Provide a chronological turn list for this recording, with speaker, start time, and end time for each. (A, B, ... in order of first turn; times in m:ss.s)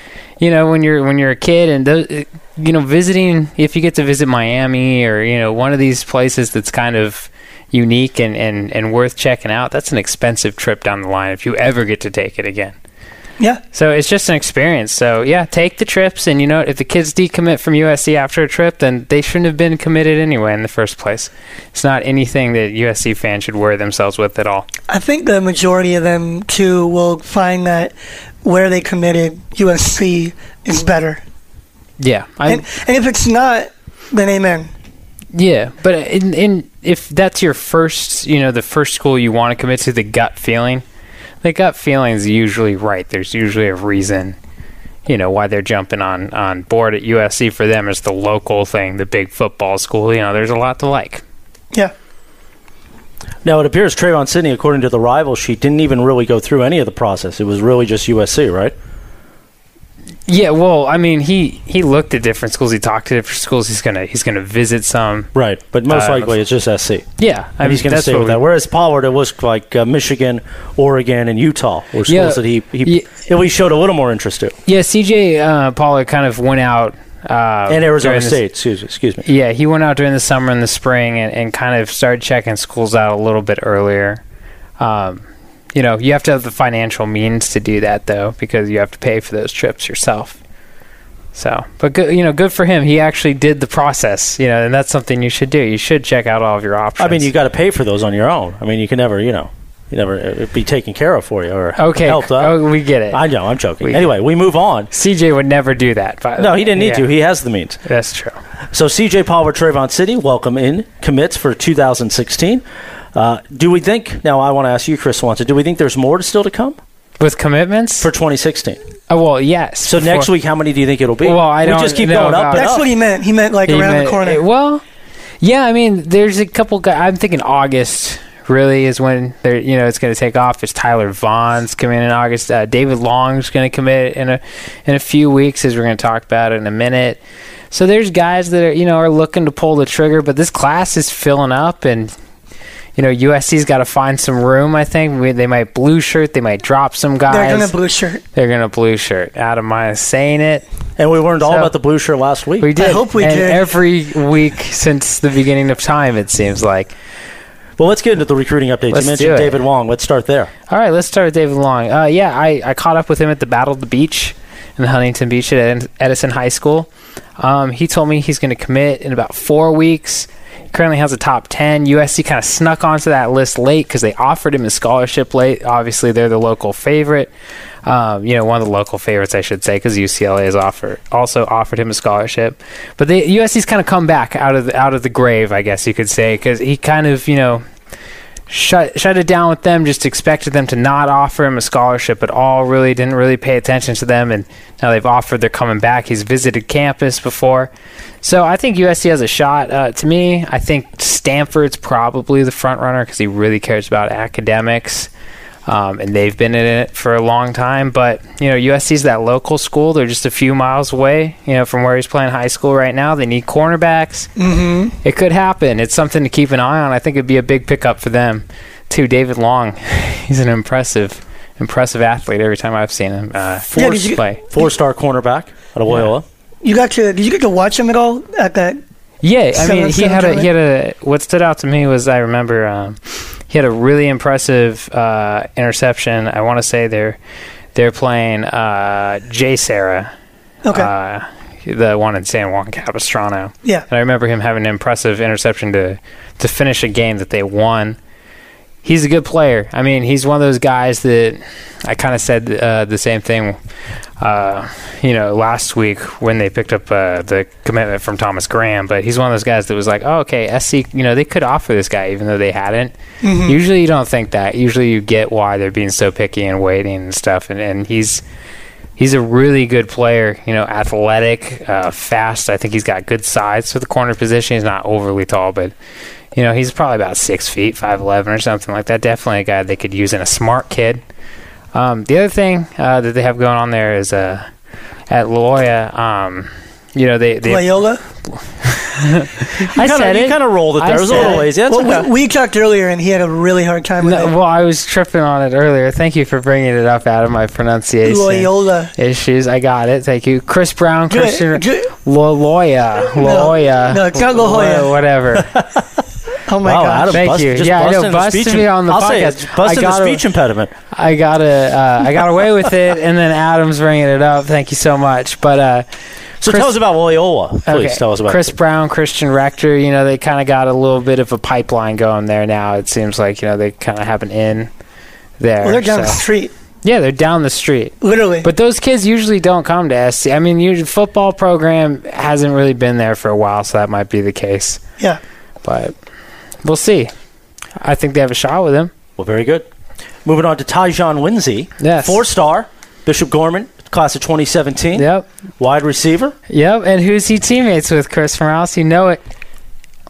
0:00.4-0:12.7 A
0:13.7-0:24.7 A
0:24.9-0:31.2 B
0:32.0-0:32.6 A
0:32.4-0:34.7 B
0:35.3-0:40.8 A
0:41.4-0:44.4 A
0:45.0-0:51.2 A
0:53.4-0:58.7 C
1:00.3-1:05.3 A
1:05.3-1:07.0 C
1:05.9-1:06.4 A
1:07.2-1:08.4 A
1:07.6-1:14.5 C
1:12.1-1:13.1 A
1:14.6-1:18.4 A
1:17.7-1:19.2 C
1:19.2-1:24.2 A
1:24.8-1:30.4 A
1:31.3-1:37.3 A
1:37.0-1:42.6 C
1:41.8-1:43.2 A
1:43.1-1:44.9 C
1:43.8-1:44.1 A
1:44.9-1:47.1 A
1:46.4-1:47.8 C
1:47.8-1:48.4 A
1:48.7-1:52.6 C
1:53.1-1:56.8 C
1:57.2-1:58.1 A
1:58.0-1:58.8 C
1:59.1-2:00.3 A
1:59.9-2:02.8 C
2:01.2-2:02.7 A
2:02.5-2:04.4 B
2:03.7-2:04.8 A
2:05.4-2:22.1 A
2:23.0-2:27.7 A
2:27.3-2:28.2 B
2:28.3-2:30.6 A
2:31.0-2:32.7 C
2:31.4-2:31.7 A
2:32.6-2:36.9 A
2:32.8-2:33.7 B
2:37.8-2:40.5 C
2:38.9-2:39.6 A
2:40.7-2:57.3 A
2:57.8-3:07.6 A
3:08.5-3:17.7 A
3:18.2-3:25.1 A
3:25.6-3:34.3 A
3:34.4-3:34.9 B
3:35.0-3:44.4 A
3:43.7-3:44.7 B
3:44.5-3:46.2 C
3:46.6-3:48.8 B
3:49.2-3:57.2 A
3:49.5-3:50.5 B
3:57.7-4:00.1 A
4:00.6-4:00.9 B
4:00.7-4:08.0 A
4:08.8-4:13.6 A
4:14.2-4:22.9 A
4:23.2-4:23.6 B
4:23.4-4:28.2 A
4:29.0-4:35.7 A
4:36.3-4:41.0 A
4:41.7-4:44.5 A
4:45.1-4:51.4 A
4:47.4-4:48.0 B
4:49.6-4:52.1 C
4:51.1-4:54.3 B
4:54.0-5:05.5 A
4:58.0-4:58.9 B
5:01.1-5:01.9 B
5:03.1-5:05.0 B
5:05.4-5:05.9 C
5:06.5-5:07.2 B
5:06.6-5:10.7 C
5:07.1-5:10.2 A
5:10.9-5:15.8 A
5:16.4-5:18.5 C
5:16.4-5:16.7 A
5:17.7-5:24.7 A
5:25.4-5:26.2 A
5:25.6-5:26.5 B
5:26.8-5:34.8 A
5:28.0-5:28.5 B
5:35.6-5:35.9 A
5:36.6-5:37.1 A
5:37.8-5:38.9 A
5:39.2-5:39.7 C
5:40.2-5:45.1 C
5:41.8-5:42.2 A
5:45.0-5:45.2 A
5:45.6-5:46.3 C
5:46.5-5:49.2 A